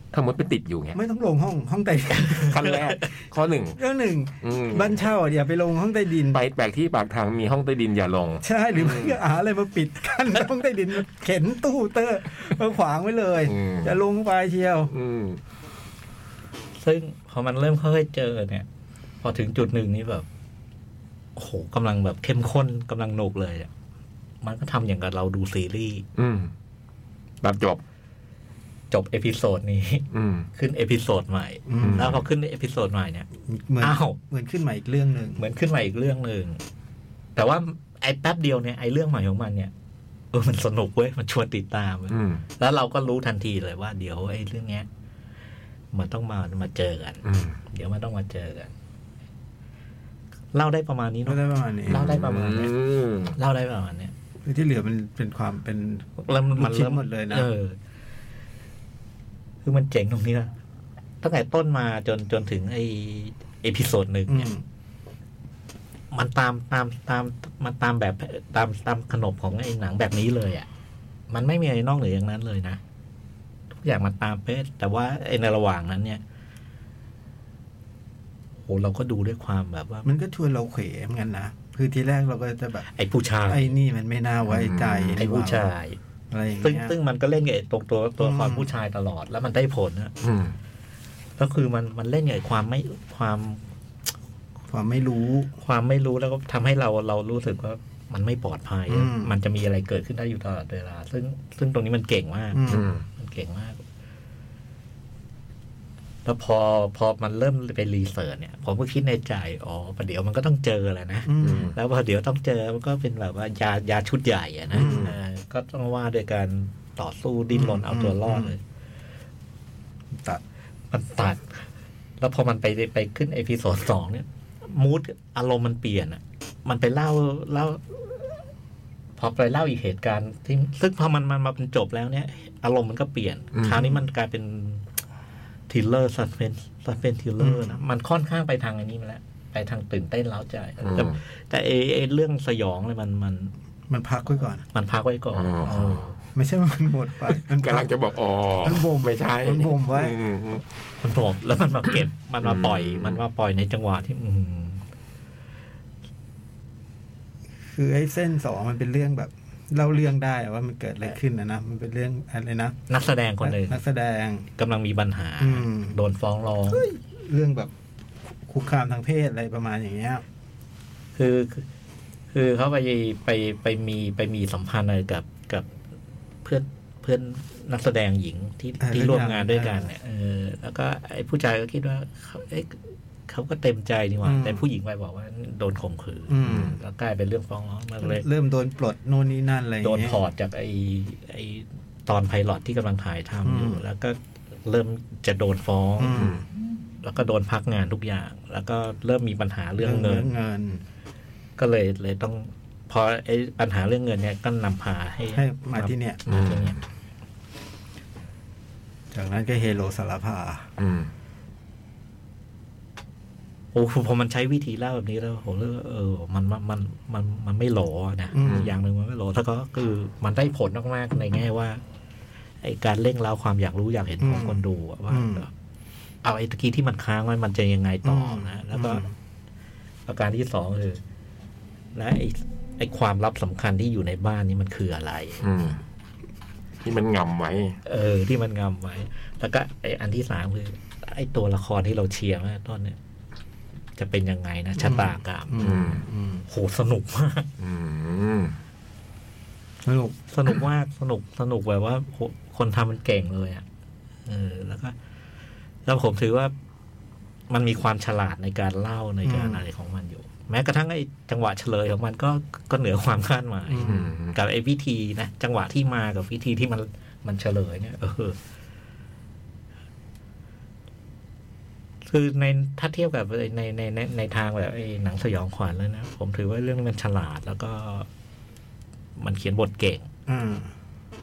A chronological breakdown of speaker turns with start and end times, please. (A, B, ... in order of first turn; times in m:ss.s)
0:00.1-0:01.0 A
0:01.0-0:02.8 B
0:02.3-0:03.8 A
0:03.8-0:06.4 B
0:04.4-0:05.0 A
0:06.3-0:09.2 A
0:08.4-0:14.9 B
0:13.5-0:13.9 A
0:14.9-0:15.4 A
0:16.8-0:18.7 C
0:19.2-0:20.3 C
0:21.4-0:23.7 C
0:24.4-0:26.0 C
0:26.2-0:26.5 A
0:27.4-0:27.8 A
0:28.9-0:33.3 C
0:30.1-0:30.5 A
0:31.7-0:32.2 B
0:31.8-0:32.2 A
0:33.4-0:35.4 B
0:33.8-0:34.2 C
0:35.4-0:36.6 C
0:37.4-0:39.7 C
0:40.3-0:44.9 C
0:42.1-0:42.4 A
0:45.9-0:48.7 C
0:47.2-0:47.6 A
0:50.5-0:52.7 C
0:51.3-0:52.2 B
0:51.9-0:53.4 A
0:53.3-0:54.1 C
0:54.4-0:57.5 B
0:56.2-0:57.8 C
0:59.6-1:00.5 C
1:01.2-1:04.5 C
1:04.3-1:04.6 B
1:06.1-1:10.7 C
1:11.3-1:12.8 C
1:13.7-1:16.2 C
1:18.6-1:20.1 C
1:20.0-1:22.9 B
1:22.9-1:23.7 C
1:23.5-1:25.7 B
1:24.5-1:25.2 A
1:25.2-1:26.0 C
1:26.3-1:27.0 B
1:26.6-1:30.1 C
1:28.2-1:28.7 B
1:30.2-1:30.6 A
1:31.4-1:33.6 C
1:34.7-1:35.5 B
1:35.6-1:43.8 C
1:38.9-1:39.3 B
1:42.5-1:42.9 B
1:42.7-1:43.0 A
1:46.2-1:58.6 C
1:51.3-1:51.7 B
1:51.4-1:51.8 A
1:54.7-1:55.2 B
1:54.8-1:55.0 A
1:57.5-1:58.5 B
2:00.2-2:00.4 B
2:00.9-2:01.7 C
2:02.2-2:08.2 C
2:09.2-2:14.8 C
2:13.5-2:13.9 A
2:15.7-2:23.5 C
2:17.4-2:17.8 B
2:20.8-2:21.2 A
2:23.9-2:24.6 B
2:24.6-2:26.2 C
2:25.3-2:26.0 A
2:26.4-2:27.9 B
2:27.5-2:30.6 A
2:28.6-2:30.2 B
2:31.0-2:34.8 C
2:32.4-2:33.2 A
2:37.7-2:42.8 B
2:42.9-2:43.8 C
2:43.4-2:44.5 B
2:44.6-2:46.9 C
2:45.4-2:46.0 B
2:46.7-2:47.7 B
2:48.5-2:50.2 B
2:51.2-2:51.7 C
2:52.3-2:55.7 C
2:56.4-3:02.8 C
2:58.8-2:59.9 B
3:03.3-3:08.3 C
3:04.2-3:04.6 B
3:06.3-3:06.8 B
3:06.5-3:06.8 A
3:08.0-3:10.2 B
3:09.8-3:16.3 C
3:13.4-3:13.8 B
3:16.0-3:16.4 B
3:17.0-3:20.3 C
3:19.8-3:20.8 B
3:21.6-3:26.8 C
3:25.4-3:26.2 B
3:26.3-3:26.8 A
3:29.1-3:30.7 B
3:30.8-3:31.1 A
3:33.7-3:41.8 C
3:38.3-3:38.7 B
3:38.4-3:38.7 A
3:42.6-3:45.5 C
3:44.2-3:45.5 B
3:46.2-3:49.0 C
3:48.0-3:49.1 B
3:50.1-3:51.0 C
3:52.0-3:55.4 C
3:55.4-3:55.8 A
3:56.8-3:57.8 A
3:57.8-4:03.0 C
4:04.0-4:07.5 C
4:04.8-4:06.4 B
4:05.6-4:06.0 A
4:07.6-4:08.6 A
4:09.8-4:10.2 B
4:10.3-4:13.6 C
4:14.3-4:15.0 C
4:15.9-4:16.5 C
4:17.5-4:28.4 C
4:19.2-4:19.6 B
4:23.7-4:24.1 B
4:23.8-4:24.4 A
4:32.1-4:38.1 C
4:39.2-4:40.1 C
4:40.3-4:40.7 B